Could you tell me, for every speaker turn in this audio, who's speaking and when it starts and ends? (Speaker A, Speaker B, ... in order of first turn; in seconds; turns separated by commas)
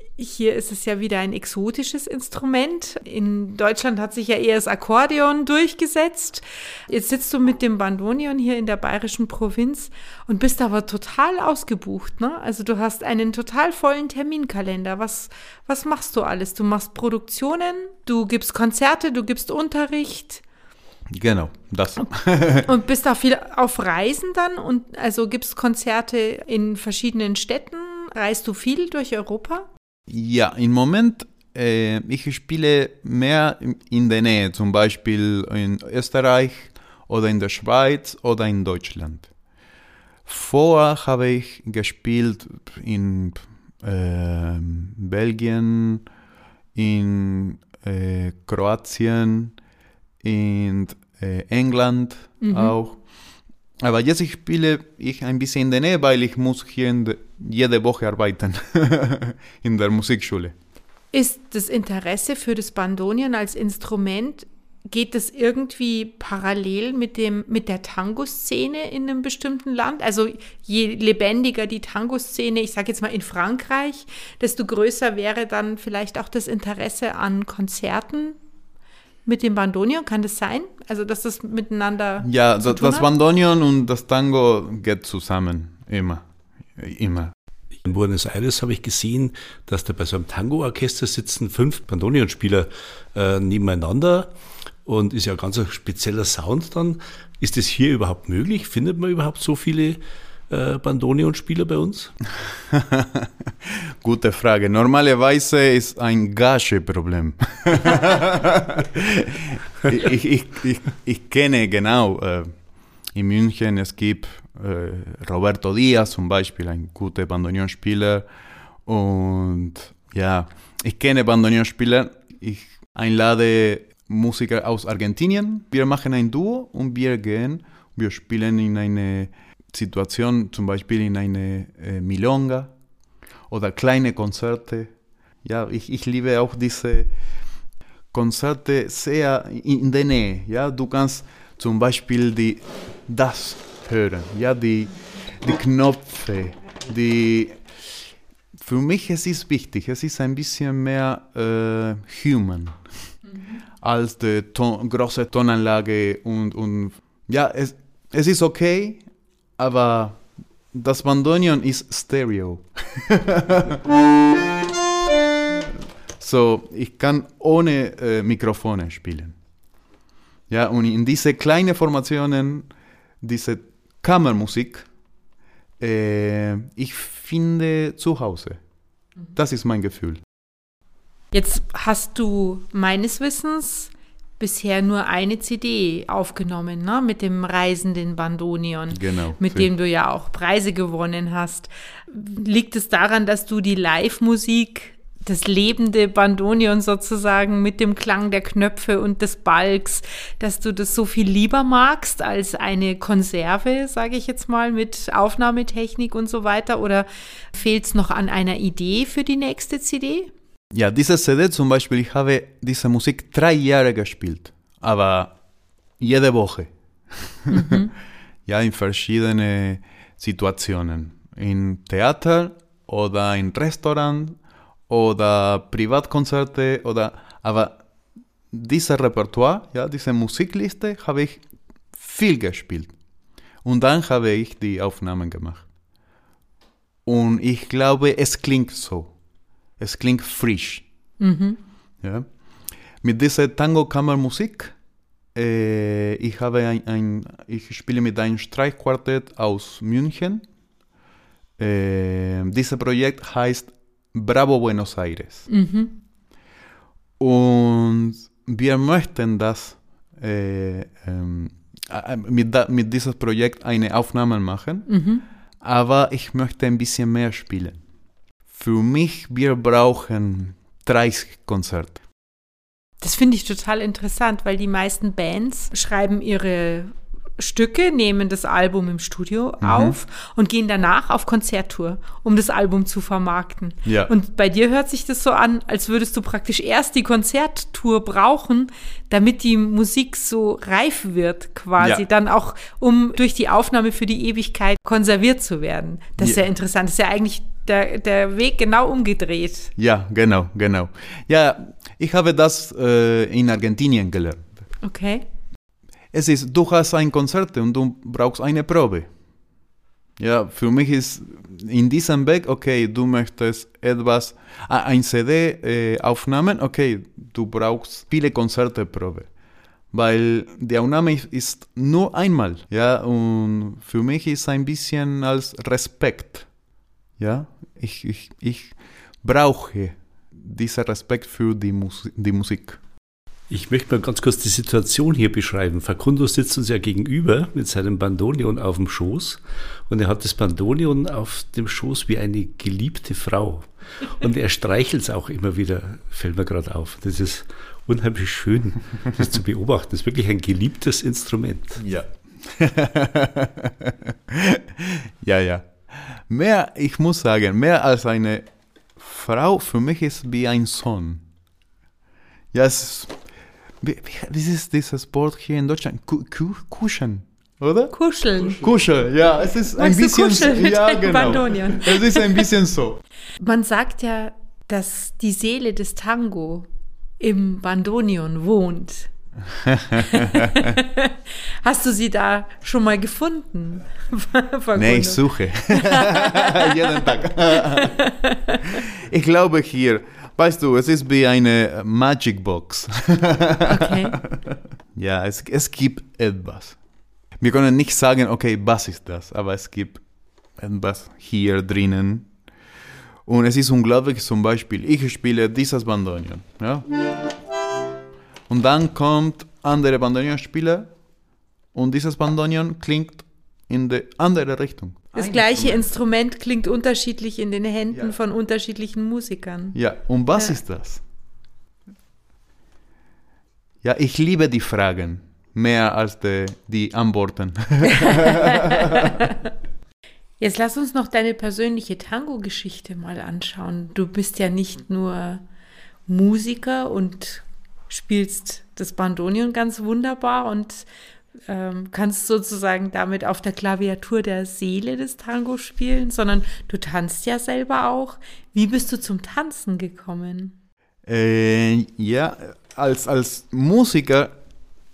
Speaker A: 0.2-20.4, Speaker B: 21.1-22.7, Speaker A: 22.6-29.7, Speaker B: 30.1-39.3, Speaker B: 40.3-46.0, Speaker B: 46.8-49.6, Speaker B: 50.2-53.0, Speaker A: 52.4-52.8, Speaker B: 53.8-60.5, Speaker A: 61.1-78.4, Speaker A: 79.2-83.1, Speaker B: 82.2-86.2, Speaker B: 86.8-87.3, Speaker C: 87.8-94.3, Speaker C: 94.8-102.2, Speaker B: 102.4-112.5, Speaker B: 113.1-118.3, Speaker B: 118.8-132.7, Speaker B: 133.5-134.9, Speaker B: 135.4-137.1, Speaker B: 138.1-147.6, Speaker B: 148.5-152.8, Speaker B: 153.8-159.0, Speaker B: 159.6-163.9, Speaker B: 165.5-169.4, Speaker B: 170.5-172.7, Speaker B: 173.2-174.9, Speaker B: 175.8-178.6, Speaker B: 179.3-180.2, Speaker A: 181.3-210.3, Speaker B: 188.9-189.7, Speaker B: 210.7-215.4, Speaker B: 216.0-217.8, Speaker A: 217.5-217.9, Speaker B: 218.5-227.8, Speaker B: 228.5-231.4, Speaker B: 231.9-232.9, Speaker B: 233.6-235.7, Speaker B: 237.1-239.2, Speaker B: 239.8-240.8, Speaker A: 241.2-241.6, Speaker B: 242.0-242.3, Speaker B: 243.0-244.8, Speaker B: 245.3-250.4, Speaker B: 251.6-255.5, Speaker A: 255.5-256.0, Speaker B: 257.2-264.9, Speaker A: 264.9-265.2, Speaker B: 265.6-267.8, Speaker B: 268.5-272.0, Speaker A: 273.0-299.7, Speaker B: 279.6-280.0, Speaker B: 283.9-284.1, Speaker B: 291.8-292.1, Speaker B: 296.2-296.4, Speaker B: 299.8-304.5, Speaker A: 304.8-305.3, Speaker B: 306.1-309.1, Speaker B: 310.2-319.3, Speaker B: 319.9-326.5, Speaker B: 327.2-332.8, Speaker C: 333.5-351.8, Speaker B: 351.8-361.2, Speaker B: 362.5-363.2, Speaker B: 363.8-367.9, Speaker A: 367.9-368.6, Speaker B: 368.6-373.0, Speaker A: 369.7-372.5, Speaker A: 373.4-376.7, Speaker A: 377.2-379.1, Speaker B: 379.5-380.8, Speaker A: 380.0-388.8, Speaker B: 384.8-388.0, Speaker B: 388.6-394.4, Speaker A: 393.6-394.2, Speaker B: 394.9-396.8, Speaker B: 397.4-400.0, Speaker B: 400.6-402.3, Speaker B: 403.2-406.9, Speaker B: 408.5-410.9, Speaker B: 411.7-415.9, Speaker A: 415.1-419.8, Speaker B: 419.7-421.0, Speaker B: 423.8-429.1, Speaker A: 427.9-429.5, Speaker A: 430.4-435.4, Speaker A: 436.1-440.9, Speaker A: 441.5-450.6, Speaker B: 451.1-454.4